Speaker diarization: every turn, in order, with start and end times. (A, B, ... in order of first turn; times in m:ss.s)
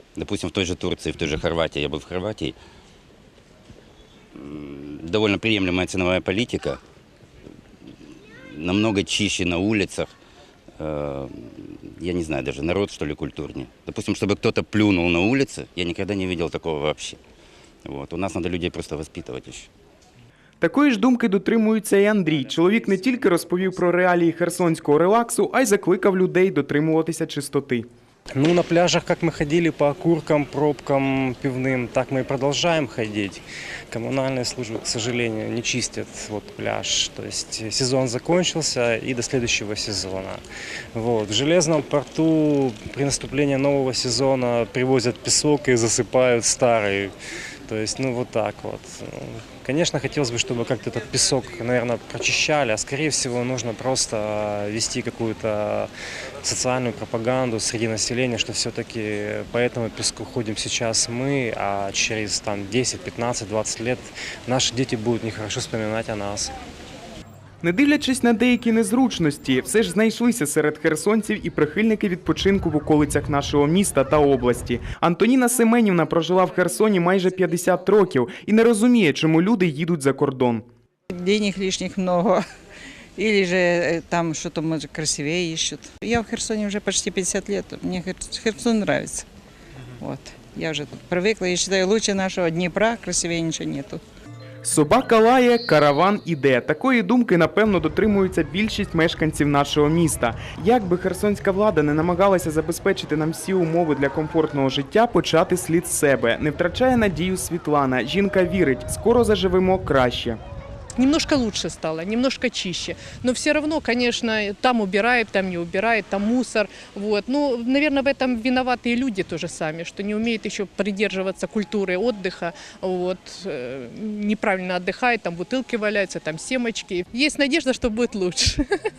0:00.2-0:02.6 A
0:04.3-0:06.8 A
0:08.4-0:10.1 A
0:10.8-0:17.2 A
0:17.8-0:19.7 A
0:20.6-0:27.9 B
0:28.3-0:40.4 C
0:40.9-0:47.1 C
0:47.7-0:55.9 C
0:56.4-1:06.5 C
1:07.6-1:20.7 B
1:21.1-1:22.4 D
1:23.2-1:29.2 D
1:30.0-1:34.0 D
1:34.6-1:50.4 B
1:51.0-2:08.6 E